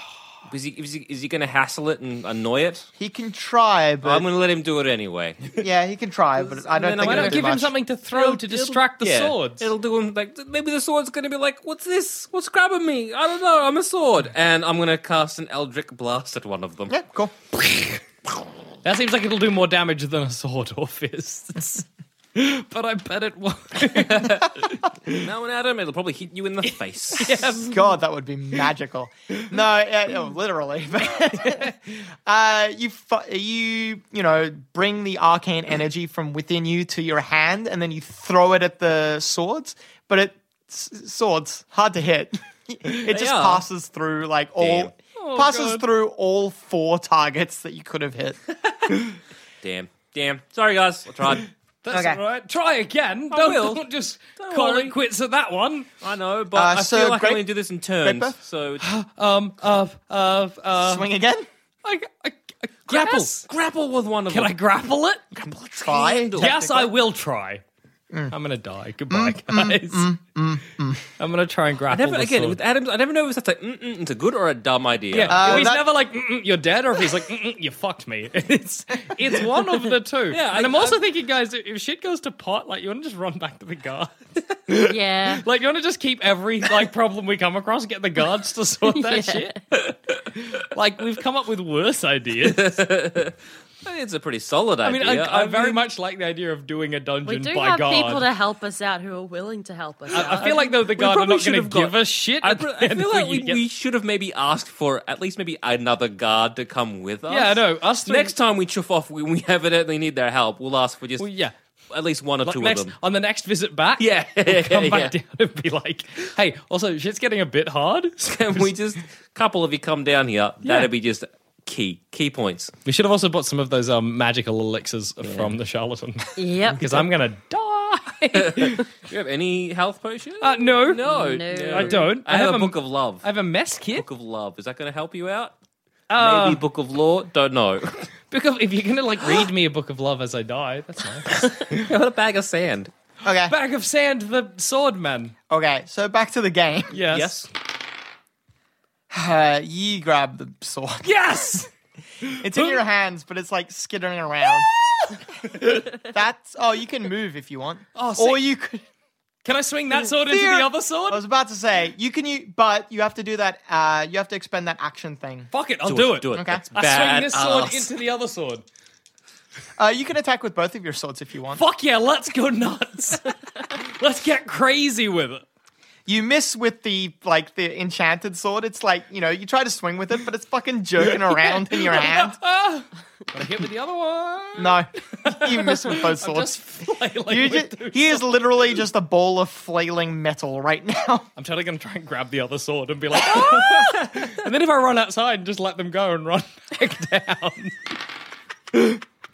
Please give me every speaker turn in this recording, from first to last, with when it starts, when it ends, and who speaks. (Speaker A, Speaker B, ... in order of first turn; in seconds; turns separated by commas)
Speaker A: 0.5-2.9, Speaker B: 3.0-4.2, Speaker A: 4.0-5.5, Speaker B: 5.6-7.7, Speaker A: 6.4-7.5, Speaker C: 7.0-9.7, Speaker A: 8.1-16.9, Speaker B: 16.9-17.3, Speaker C: 17.6-18.0, Speaker C: 18.8-25.2, Speaker A: 24.0-24.5, Speaker A: 25.1-27.5, Speaker C: 26.7-27.7, Speaker B: 27.6-48.4, Speaker C: 31.4-31.7, Speaker A: 43.1-43.6, Speaker A: 44.6-44.9, Speaker C: 45.2-45.9, Speaker A: 49.6-51.5, Speaker C: 51.8-55.9, Speaker B: 51.9-52.2, Speaker A: 53.3-53.8, Speaker A: 54.4-55.0, Speaker A: 56.0-58.8, Speaker B: 56.5-57.5, Speaker B: 58.0-58.4, Speaker C: 58.8-61.0, Speaker B: 60.7-61.5, Speaker C: 61.8-63.5, Speaker A: 62.9-64.6, Speaker C: 64.3-65.2, Speaker B: 65.3-66.9, Speaker A: 65.7-66.6, Speaker C: 66.3-67.6, Speaker C: 68.3-70.1, Speaker B: 69.1-71.0, Speaker C: 71.2-72.6, Speaker A: 71.9-75.7, Speaker C: 75.1-84.1, Speaker B: 75.3-75.9, Speaker A: 80.3-81.0, Speaker C: 84.7-89.5, Speaker D: 84.9-85.4, Speaker D: 88.9-89.6, Speaker C: 90.3-92.8, Speaker A: 92.4-95.8, Speaker C: 94.8-98.2, Speaker D: 97.2-100.7, Speaker C: 100.1-103.6, Speaker A: 100.1-111.3, Speaker C: 107.3-108.3, Speaker C: 111.2-111.5, Speaker A: 111.9-112.9, Speaker C: 112.4-118.7, Speaker A: 114.0-115.1, Speaker A: 118.3-122.7, Speaker C: 120.6-120.9, Speaker C: 122.8-128.8, Speaker A: 125.2-125.5, Speaker D: 126.4-127.0, Speaker A: 128.3-133.2, Speaker C: 130.4-131.0, Speaker D: 131.0-132.0, Speaker C: 131.7-134.0, Speaker A: 133.9-135.5, Speaker C: 136.1-136.6, Speaker A: 136.2-138.0, Speaker C: 138.3-141.9, Speaker A: 141.3-142.9, Speaker B: 143.2-143.5, Speaker C: 143.5-145.3, Speaker B: 145.5-146.9, Speaker C: 146.9-147.3, Speaker A: 147.1-147.5, Speaker B: 149.1-151.1, Speaker C: 151.0-151.7, Speaker C: 152.2-152.8, Speaker B: 152.4-154.7, Speaker B: 155.3-158.8, Speaker C: 157.9-158.4, Speaker C: 159.4-161.2, Speaker B: 160.2-165.5, Speaker C: 165.5-168.6, Speaker A: 165.8-167.9, Speaker B: 166.3-166.6, Speaker B: 169.8-171.6, Speaker C: 171.5-175.4, Speaker B: 176.1-182.4, Speaker C: 181.2-188.4, Speaker B: 184.6-186.5, Speaker B: 187.3-191.3, Speaker C: 191.3-197.8